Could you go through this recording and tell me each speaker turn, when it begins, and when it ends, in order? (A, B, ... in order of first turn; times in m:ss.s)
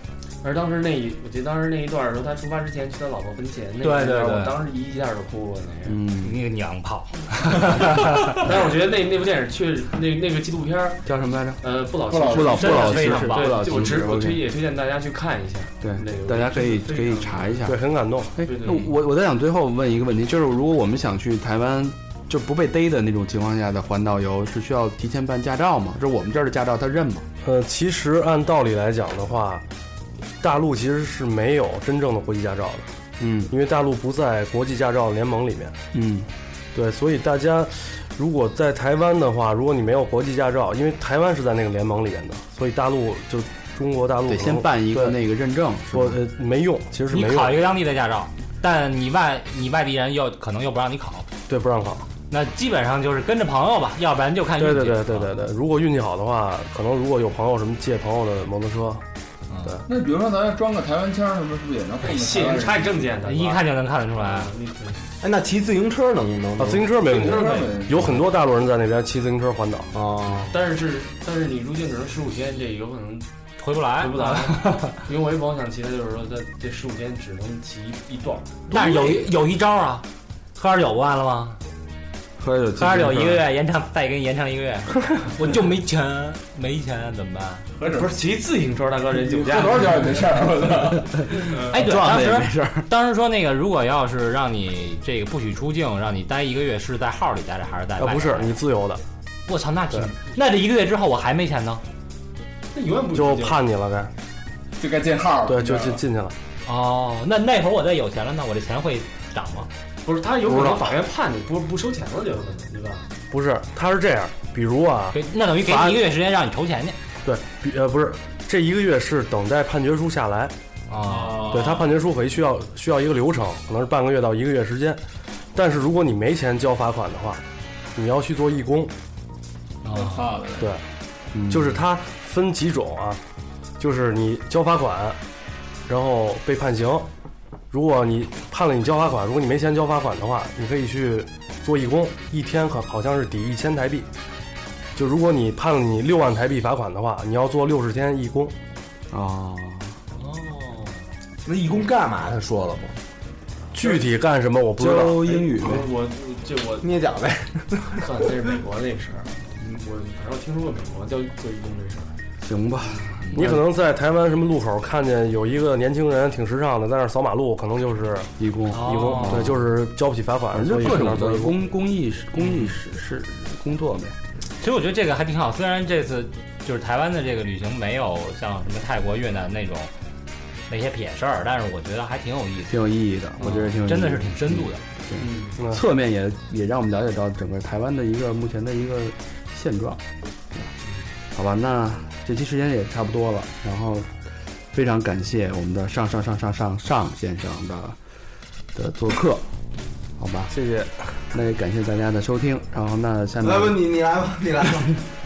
0:00.4-0:06.0 A
0:03.8-0:04.6 B
0:05.8-0:06.4 C
0:06.2-0:08.4 B
0:08.3-0:11.0 A
0:11.0-0:11.6 C
0:11.6-0:17.6 A
0:12.1-0:13.2 D
0:12.3-0:14.4 C
0:12.6-0:13.6 B
0:15.8-0:17.8 C
0:17.6-0:18.3 E
0:18.4-0:27.3 C
0:18.4-0:18.9 A
0:27.4-0:29.6 E
0:30.4-0:32.9 E
0:33.2-0:33.5 C
0:33.5-0:35.8 E
0:35.9-0:36.3 C
0:36.7-0:45.2 E
0:44.3-0:46.2 C
0:45.9-0:47.6 E
0:47.1-0:51.3 B
0:51.5-0:52.1 E
0:52.3-0:55.3 B
0:54.6-0:59.0 E
0:59.5-0:59.8 B
0:59.8-1:03.0 D
1:02.0-1:05.0 A
1:03.2-1:04.5 B
1:05.2-1:07.0 F
1:06.6-1:09.9 E
1:07.0-1:08.2 D
1:07.1-1:07.7 A
1:09.9-1:10.5 F
1:10.5-1:13.3 A
1:13.6-1:14.9 B
1:13.9-1:19.3 A
1:18.7-1:20.0 B
1:20.6-1:21.6 B
1:22.4-1:23.4 C
1:22.8-1:27.6 B
1:27.8-1:28.2 D
1:27.9-1:30.2 A
1:29.2-1:31.3 D
1:31.3-1:31.7 A
1:31.4-1:32.9 C
1:31.6-1:38.6 B
1:38.0-1:39.0 E
1:39.5-1:41.8 B
1:42.7-1:43.6 A
1:43.1-1:44.1 E
1:44.8-1:46.0 D
1:45.5-1:46.4 E
1:46.6-1:49.7 B
1:50.0-1:53.1 A
1:50.4-1:50.9 E
1:53.3-1:55.2 E
1:55.1-1:57.0 B
1:55.7-1:55.9 E
1:57.2-2:00.5 E
2:00.9-2:01.4 B
2:01.0-2:01.9 D
2:01.4-2:05.0 E
2:05.5-2:07.4 E
2:07.9-2:08.9 E
2:09.8-2:10.3 B
2:09.9-2:10.8 D
2:11.3-2:11.8 C
2:11.5-2:13.2 E
2:13.8-2:15.2 E
2:15.9-2:17.1 E
2:17.7-2:24.1 E
2:24.9-2:28.5 E
2:29.1-2:30.0 C
2:30.2-2:31.0 A
2:31.4-2:33.0 F
2:33.7-2:35.3 E
2:34.8-2:35.9 C
2:35.2-2:36.9 A
2:36.8-2:38.2 F
2:37.9-2:42.1 A
2:42.4-2:43.6 C
2:43.2-2:43.5 B
2:43.3-2:51.6 E
2:48.4-2:49.6 C
2:48.7-2:49.5 B
2:50.5-2:54.2 C
2:52.4-2:52.7 B
2:54.6-2:59.9 B
3:00.7-3:02.8 B
3:02.7-3:10.0 C
3:03.4-3:04.8 B
3:05.2-3:05.6 A
3:11.3-3:14.1 C
3:14.7-3:18.0 C
3:18.7-3:19.4 C
3:20.2-3:20.5 C
3:20.5-3:21.0 E
3:21.3-3:23.8 C
3:23.4-3:25.0 F